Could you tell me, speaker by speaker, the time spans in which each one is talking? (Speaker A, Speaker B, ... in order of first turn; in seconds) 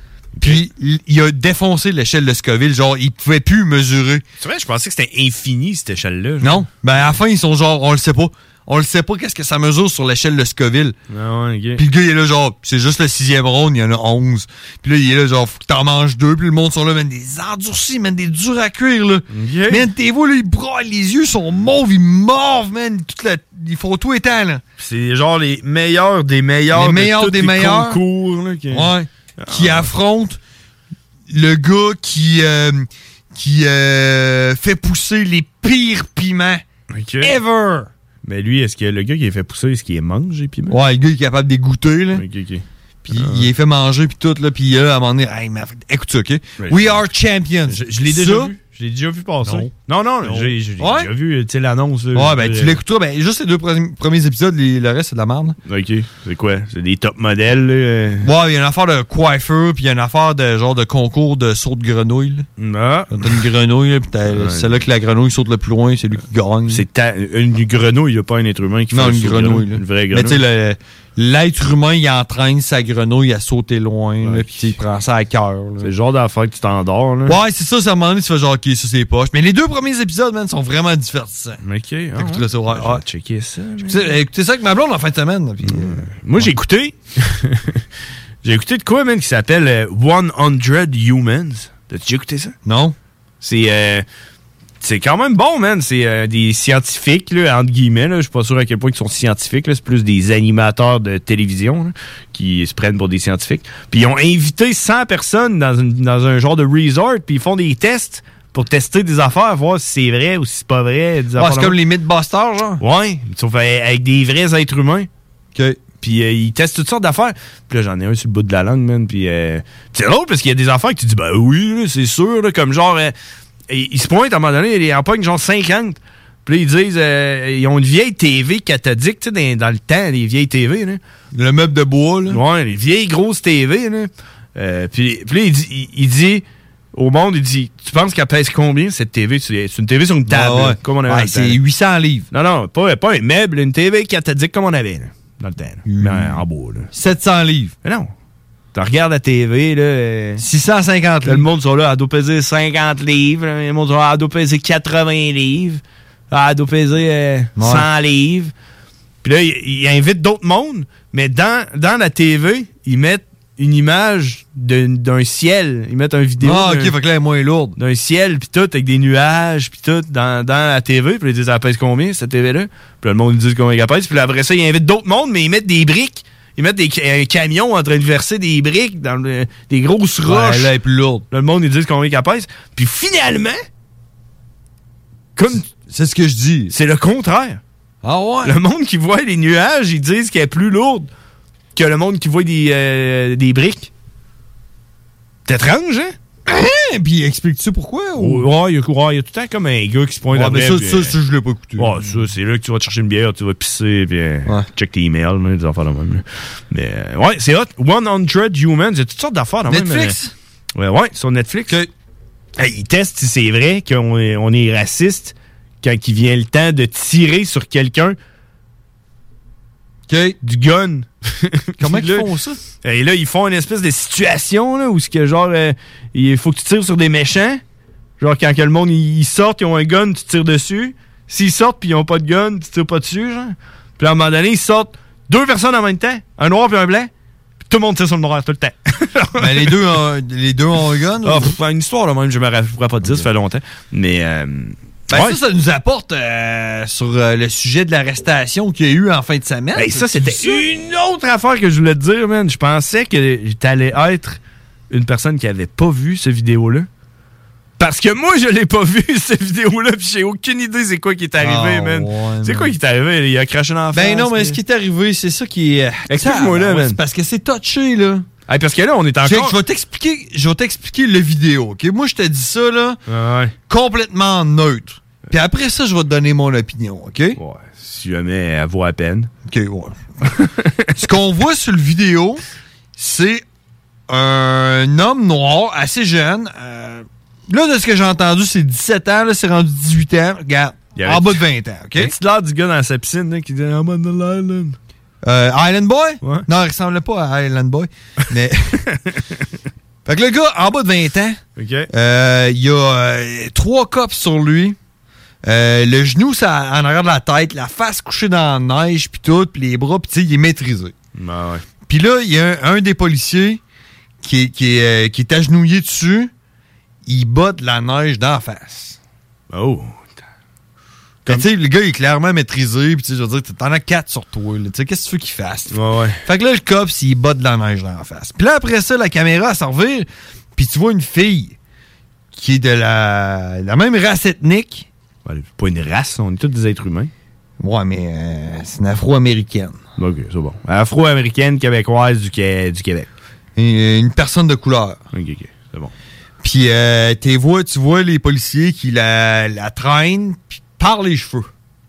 Speaker A: 0.4-0.6, 4.4-6.7, 11.1-11.8, 19.3-19.9, 24.8-29.9, 36.9-37.4, 38.2-40.8, 42.1-43.5, 46.6-47.0, 47.7-52.8, 55.7-58.3, 62.6-63.4, 64.3-64.7, 66.7-70.4, 74.2-74.7, 75.8-77.4, 81.6-84.1, 85.6-87.8, 88.4-92.5, 93.4-94.0, 94.8-111.8, 112.8-115.1, 116.0-123.1, 123.7-131.0, 132.3-141.6, 142.3-146.9, 147.8-148.1, 148.7-150.4, 151.2-158.5, 159.2-166.9, 167.8-180.7, 181.3-183.6, 185.4-185.7, 186.7-187.6, 188.4-191.1, 191.8-193.9, 195.5-196.2, 198.2-201.2, 201.8-210.2, 210.8-211.8, 212.6-218.2, 220.4-222.3, 222.8-227.6, 228.2-237.1, 237.7-239.8, 241.2-245.4, 249.8-254.4, 254.9-256.9, 257.8-264.6, 266.1-267.0, 268.5-269.6, 273.1-273.5, 277.4-279.3, 291.0-291.4, 292.0-294.8, 301.6-301.9, 311.2-311.6, 319.5-320.0, 325.7-326.2, 335.3-337.1, 340.0-343.1, 345.1-345.9
Speaker B: 0.4-4.2, 6.4-11.0, 11.8-24.6, 26.7-28.0, 28.7-30.4, 31.3-36.6, 37.2-37.9, 40.7-42.2, 43.1-48.5, 49.4-49.7, 50.2-51.1, 52.1-55.6, 58.2-62.5, 63.1-66.8, 68.9-75.9, 77.3-81.6, 82.2-83.0, 83.8-86.5, 92.7-93.0, 111.4-112.8, 115.5-115.8, 131.3-132.4, 140.3-142.3, 145.9-146.4, 146.9-147.7, 150.4-151.5, 157.6-157.9, 166.4-167.8, 180.2-181.2, 185.5-186.7, 188.0-188.6, 196.5-198.5, 200.3-202.1, 209.7-210.3, 220.1-220.4, 221.8-222.6, 239.4-241.5, 245.1-250.7, 261.4-262.7, 263.9-268.3, 269.2-273.0, 273.7-277.4, 279.5-280.0, 281.0-282.4, 283.0-283.4, 284.1-292.1, 295.2-298.8, 300.1-301.4, 301.9-304.8, 305.4-310.9, 311.9-313.6, 314.2-316.3, 317.1-319.0, 321.3-331.6, 332.3-334.9, 337.6-339.8, 343.6-345.0, 346.4-351.5